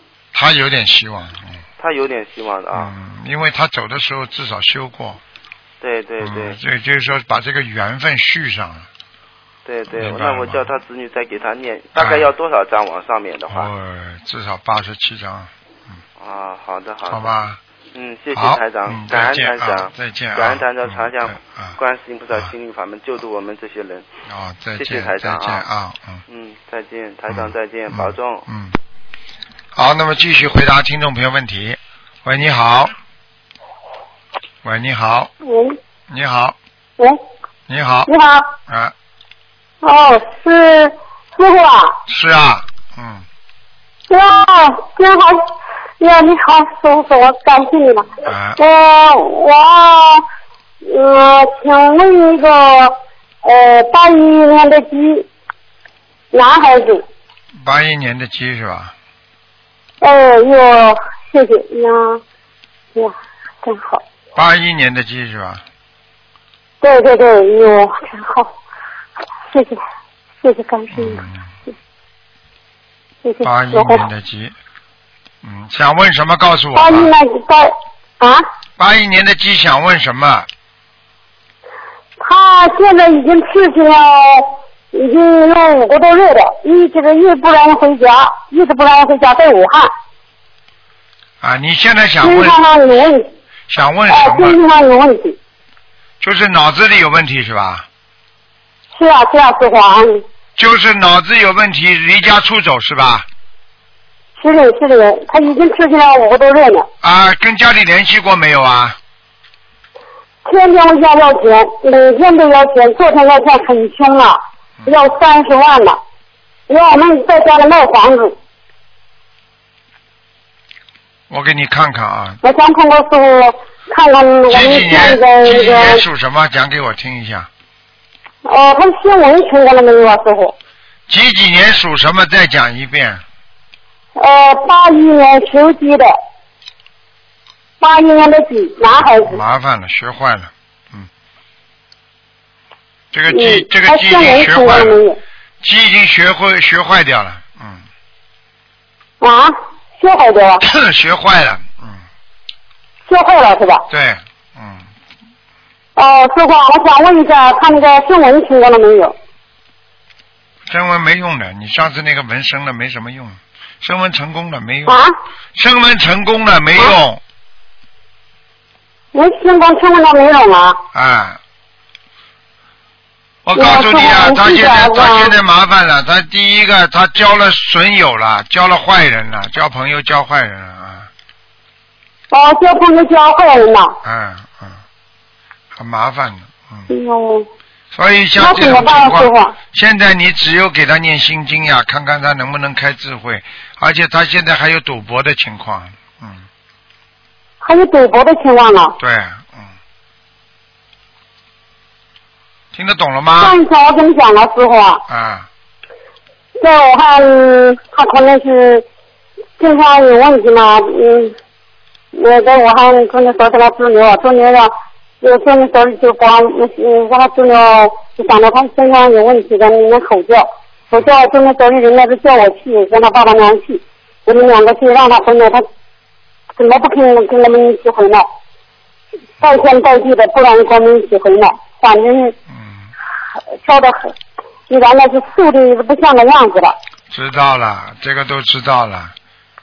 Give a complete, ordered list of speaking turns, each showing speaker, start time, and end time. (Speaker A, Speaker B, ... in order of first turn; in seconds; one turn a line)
Speaker A: 0.3-1.6
Speaker B: 1.8-2.9
Speaker A: 2.7-5.2
Speaker B: 5.8-6.6
Speaker A: 6.2-8.9
Speaker B: 9.6-13.7
Speaker A: 10.0-10.6
Speaker A: 11.9-12.3
Speaker A: 13.5-15.5
Speaker B: 16.2-17.3
Speaker A: 17.1-17.6
Speaker B: 17.9-24.1
Speaker A: 18.3-21.8
Speaker A: 24.3-26.2
Speaker B: 24.8-25.6
Speaker B: 26.3-28.4
Speaker A: 27.3-28.8
Speaker A: 29.7-32.9
Speaker A: 34.6-35.3
Speaker C: 35.4-35.8
Speaker A: 36.1-36.5
Speaker A: 37.7-38.1
Speaker C: 38.1-38.5
Speaker A: 38.7-38.9
Speaker C: 39.8-41.9
Speaker A: 42.1-43.2
Speaker C: 44.1-45.5
Speaker C: 46.0-50.2
Speaker A: 48.2-48.6
Speaker C: 50.8-55.3
Speaker C: 56.3-57.0
Speaker A: 57.5-58.9
Speaker C: 60.0-62.2
Speaker C: 62.9-64.0
Speaker A: 64.3-65.6
Speaker C: 66.8-68.5
Speaker C: 69.5-69.8
Speaker C: 70.4-71.2
Speaker A: 70.9-71.4
Speaker C: 73.2-74.1
Speaker A: 73.4-74.5
Speaker A: 75.4-77.1
Speaker C: 76.7-78.5
Speaker A: 78.8-80.5
Speaker C: 82.2-89.9
Speaker A: 91.4-92.6
Speaker C: 92.2-93.3
Speaker A: 93.7-94.6
Speaker C: 94.1-95.4
Speaker A: 96.2-97.8
Speaker C: 99.0-100.2
Speaker A: 100.6-103.2
Speaker C: 104.4-106.9
Speaker A: 107.0-109.0
Speaker C: 110.4-116.0
Speaker C: 116.7-118.3
Speaker A: 121.3-122.4
Speaker C: 122.4-126.0
Speaker A: 124.5-127.5
Speaker C: 128.4-130.5
Speaker A: 131.1-133.2
Speaker C: 134.2-136.1
Speaker C: 137.8-139.4
Speaker A: 139.0-141.1
Speaker A: 143.1-145.0
Speaker C: 143.3-145.2
Speaker A: 145.6-147.8
Speaker C: 149.2-150.6
Speaker A: 150.6-152.0
Speaker C: 153.1-153.9
Speaker A: 153.9-154.8
Speaker C: 155.9-159.1
Speaker A: 160.7-165.0
Speaker C: 164.9-165.1
Speaker A: 165.5-167.2
Speaker C: 169.1-170.8
Speaker A: 170.9-171.4
Speaker A: 173.4-181.1
Speaker C: 173.5-175.3
Speaker C: 182.3-183.9
Speaker A: 184.0-184.8
Speaker A: 185.7-186.9
Speaker C: 186.9-187.5
Speaker A: 187.9-196.4
Speaker C: 188.4-189.5
Speaker C: 197.6-198.9
Speaker A: 199.0-199.7
Speaker A: 202.7-203.6
Speaker C: 203.4-205.0
Speaker A: 205.1-205.5
Speaker C: 206.6-208.8
Speaker C: 209.6-211.3
Speaker C: 212.1-225.7
Speaker C: 226.6-228.3
Speaker C: 229.4-232.3
Speaker A: 232.5-232.9
Speaker C: 233.6-234.1
Speaker C: 234.7-236.8
Speaker A: 237.1-239.1